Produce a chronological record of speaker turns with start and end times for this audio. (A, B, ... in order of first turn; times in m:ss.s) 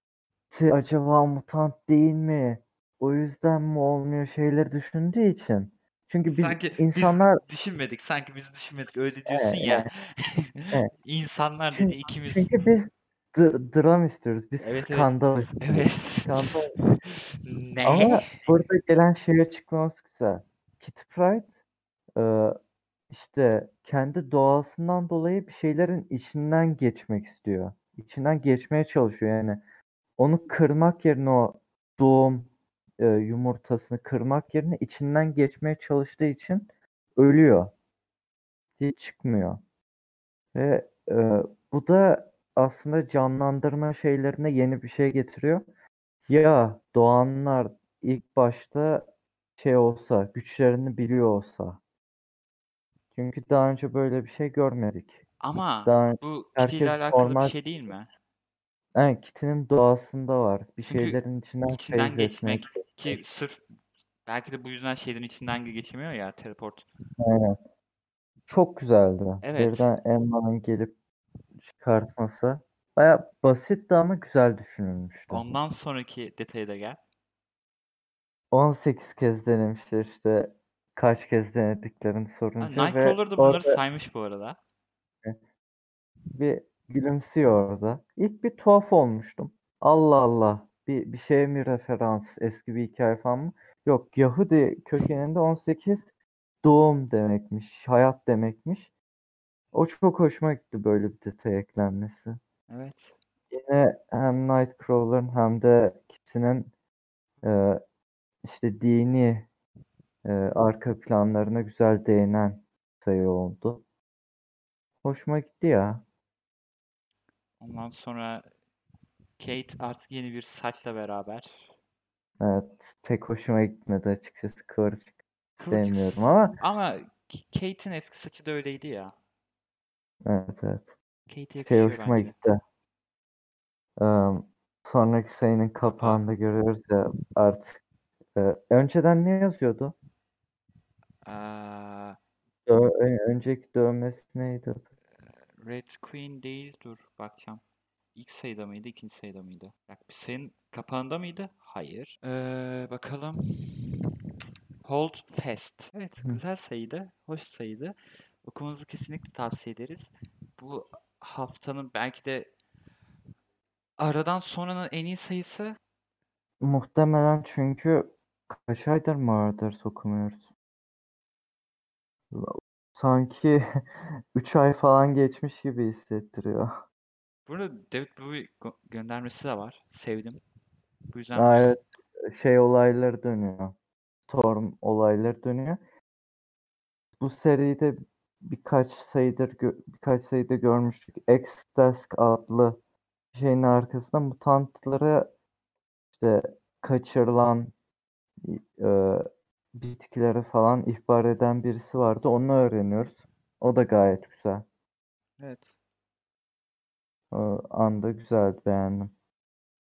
0:00.5-0:07.4 A
0:06.3-0:12.5 B
0:09.3-0:09.9 A
0:11.7-0:16.7 A
0:14.6-0:18.4 B
0:17.8-0:21.5 A
0:22.2-0:22.6 A
0:23.1-0:29.6 A
0:30.2-0:37.7 A
0:38.8-0:39.6 A
0:40.5-0:45.6 A
0:46.3-0:49.0 A
0:49.6-0:51.8 A
0:53.1-0:55.2 A
0:55.4-0:58.1 B
0:55.8-0:57.6 A
0:58.9-1:03.2 A
1:00.8-1:03.6 B
1:04.2-1:06.8 B
1:07.2-1:07.6 A
1:08.5-1:10.9 A
1:09.4-1:09.9 B
1:11.6-1:15.5 A
1:15.3-1:17.0 B
1:18.5-1:23.8 A
1:22.6-1:24.6 B
1:26.3-1:36.1 A
1:36.6-1:38.9 A
1:39.7-1:42.4 A
1:42.7-1:43.2 B
1:43.5-1:46.7 A
1:47.4-1:47.8 A
1:48.4-1:49.5 A
1:50.2-1:53.8 A
1:55.0-1:56.0 A
1:57.6-1:58.4 B
1:59.4-2:01.7 B
2:02.4-2:05.1 A
2:05.6-2:09.1 B
2:05.7-2:06.6 A
2:10.2-2:10.9 A
2:11.3-2:12.3 B
2:11.6-2:12.6 A
2:14.0-2:17.8 A
2:15.8-2:16.2 B
2:18.4-2:19.9 A
2:21.2-2:22.2 B
2:22.6-2:24.9 A
2:25.2-2:27.6 B
2:28.1-2:34.1 B
2:34.8-2:42.5 B
2:44.0-2:45.8 B
2:46.6-2:50.5 A
2:52.3-2:53.8 A
2:54.3-2:56.8 A
2:57.4-3:00.4 B
3:01.1-3:01.8 B
3:01.3-3:03.7 A
3:04.3-3:05.8 A
3:07.2-3:12.8 A
3:13.3-3:15.3 A
3:16.2-3:17.7 A
3:18.4-3:24.6 A
3:25.4-3:25.7 B
3:27.3-3:29.1 A